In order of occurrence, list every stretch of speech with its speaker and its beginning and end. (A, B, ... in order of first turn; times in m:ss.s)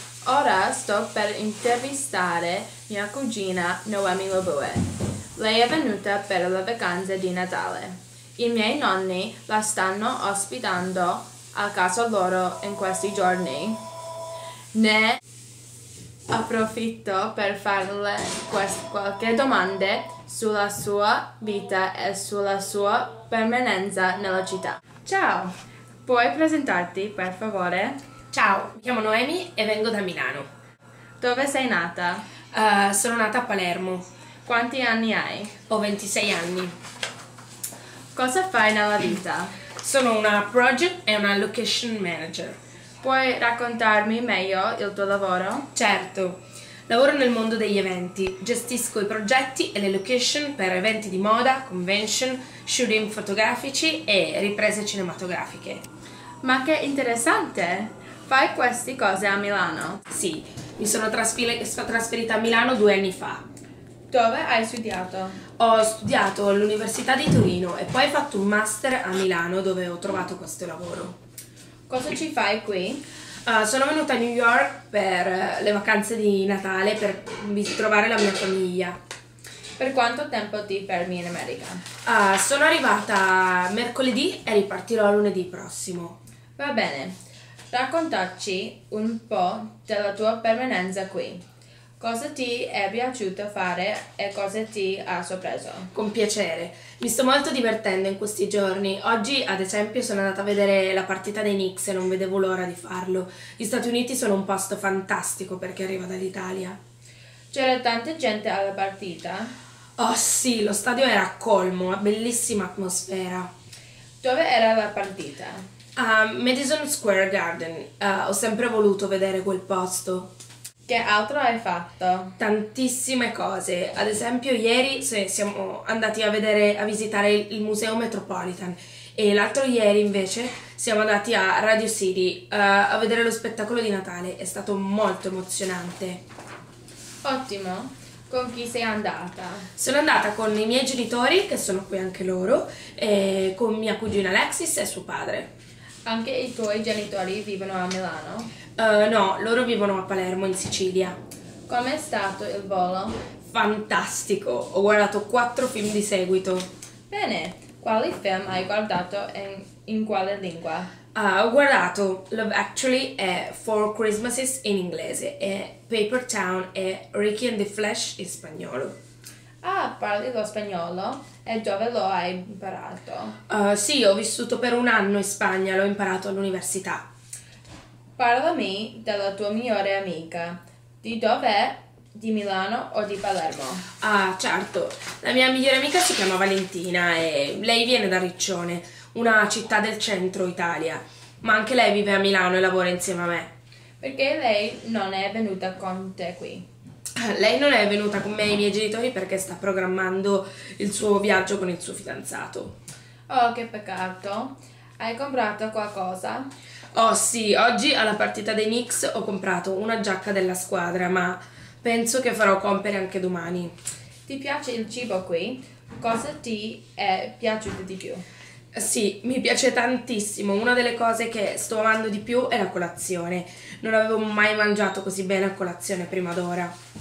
0:00.2-0:13.8 A
0:14.7-0:15.2 A
0:16.3-0:28.0 A
0:28.3-0:30.5 B
0:31.2-0:32.2 A
0:32.5-0:34.1 B
0:34.4-0:35.6 A
0:35.7-0:36.7 B
0:38.1-0:39.6 A
0:39.8-0:42.6 B
0:43.0-0:45.7 A
0:45.7-0:55.8 B
0:56.4-1:00.0 A
1:00.1-1:03.4 B
1:04.1-1:05.4 A
1:05.6-1:11.2 B
1:11.9-1:13.0 A
1:13.4-1:19.0 B
1:19.8-1:21.8 A
1:22.0-1:26.2 B
1:26.6-1:27.2 A
1:27.7-1:31.4 A
1:32.0-1:35.9 A
1:35.9-1:46.8 B
1:47.5-1:49.5 A
1:50.0-1:53.5 B
1:54.2-1:55.6 A
1:56.0-2:00.3 B
2:00.8-2:02.4 A
2:02.4-2:16.2 B
2:17.2-2:19.7 A
2:19.8-2:25.5 B
2:26.0-2:28.5 A
2:28.8-2:31.2 B
2:31.7-2:33.2 A
2:33.4-2:36.7 B
2:37.1-2:40.9 A
2:41.1-2:49.0 B
2:49.6-2:53.4 A
2:53.5-2:57.1 B
2:58.2-3:03.9 A
3:04.0-3:13.5 B
3:14.0-3:16.7 A
3:17.2-3:22.8 B
3:23.3-3:26.5 A
3:26.9-3:33.7 B
3:34.2-3:38.2 A
3:38.7-3:46.7 B